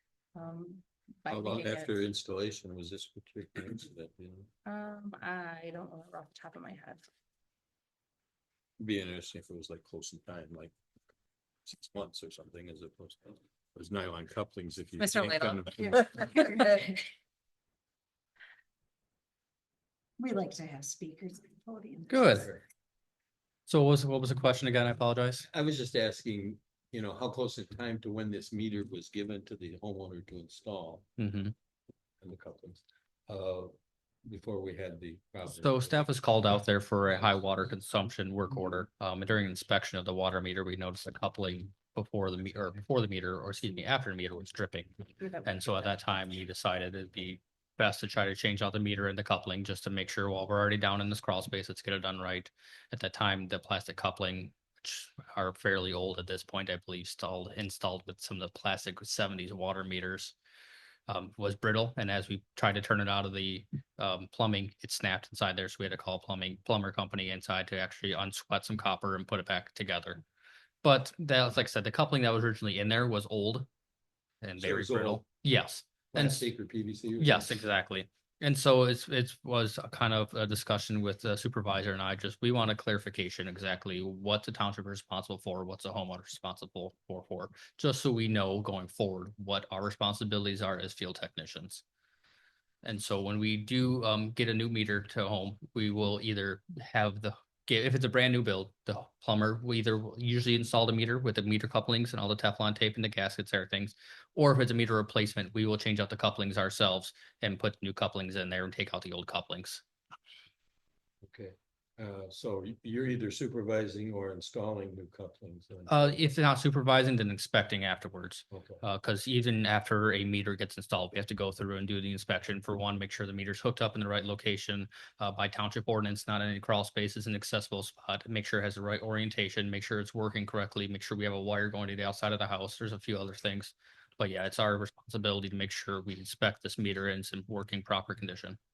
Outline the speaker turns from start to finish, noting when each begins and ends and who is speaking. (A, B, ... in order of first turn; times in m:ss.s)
0:00.3-0:01.9 A
0:01.3-0:04.5 B
0:04.6-0:07.0 A
0:08.8-0:10.7 B
0:11.6-0:16.3 B
0:15.0-0:15.7 A
0:16.1-0:17.0 C
0:16.3-0:16.9 A
0:20.2-0:22.5 C
0:22.1-0:22.5 D
0:23.7-0:25.5 D
0:25.5-0:31.0 B
0:31.2-0:31.5 D
0:32.2-0:33.7 B
0:34.2-0:36.1 B
0:35.5-0:44.9 D
0:45.4-1:00.3 D
1:01.1-1:10.2 D
1:10.8-1:13.7 D
1:14.4-1:16.4 D
1:14.6-1:15.2 B
1:16.1-1:17.6 B
1:17.2-1:31.8 D
1:32.8-1:49.8 D
1:51.2-1:56.0 B
1:55.9-2:18.6 D
1:58.5-1:58.8 B